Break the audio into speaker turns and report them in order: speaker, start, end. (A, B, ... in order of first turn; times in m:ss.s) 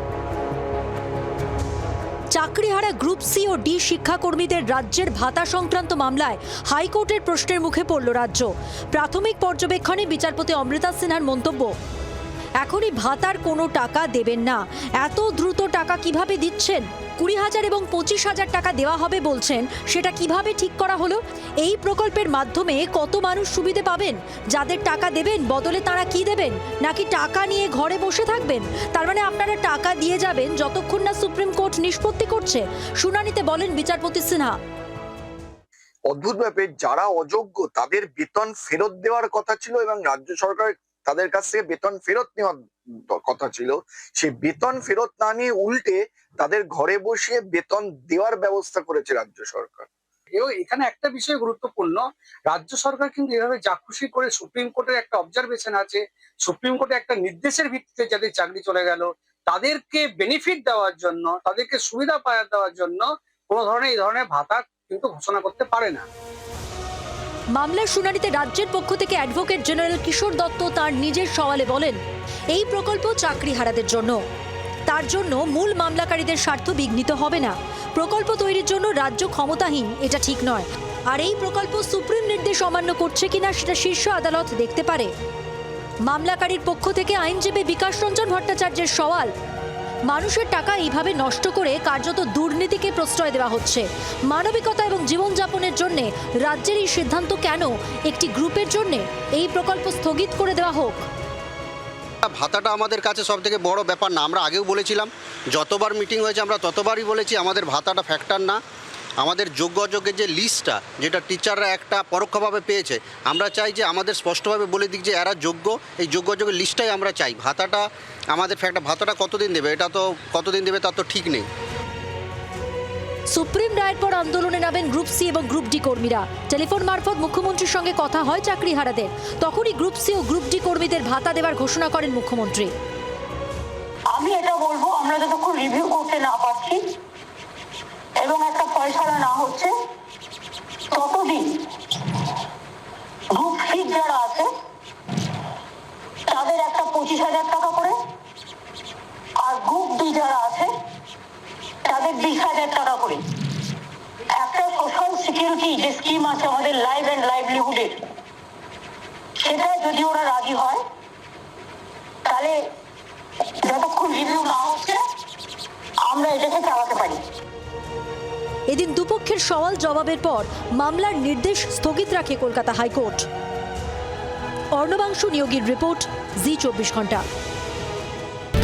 0:02.3-0:11.7 A
0:12.6-0:34.6 A
0:36.1-0:49.9 B
0:50.4-0:52.0 C
0:52.5-0:59.0 C
0:59.6-1:03.0 C
1:03.6-1:06.0 C
1:07.5-1:12.0 A
1:12.5-1:14.2 A
1:14.9-1:25.1 A
1:26.0-1:29.3 A
1:30.1-1:41.0 A
1:42.2-1:48.6 D
1:49.2-2:01.5 D
2:03.3-2:12.7 A
2:14.1-2:16.8 E
2:18.2-2:19.7 E
2:20.9-2:21.6 E
2:23.3-2:24.5 E
2:26.3-2:28.0 E
2:29.4-2:30.7 E
2:31.8-2:33.2 E
2:34.3-2:38.0 E
2:39.4-2:40.8 E
2:42.2-2:42.6 E
2:43.6-2:45.0 E
2:46.0-2:47.2 E
2:48.7-2:53.2 A
2:54.7-2:57.2 A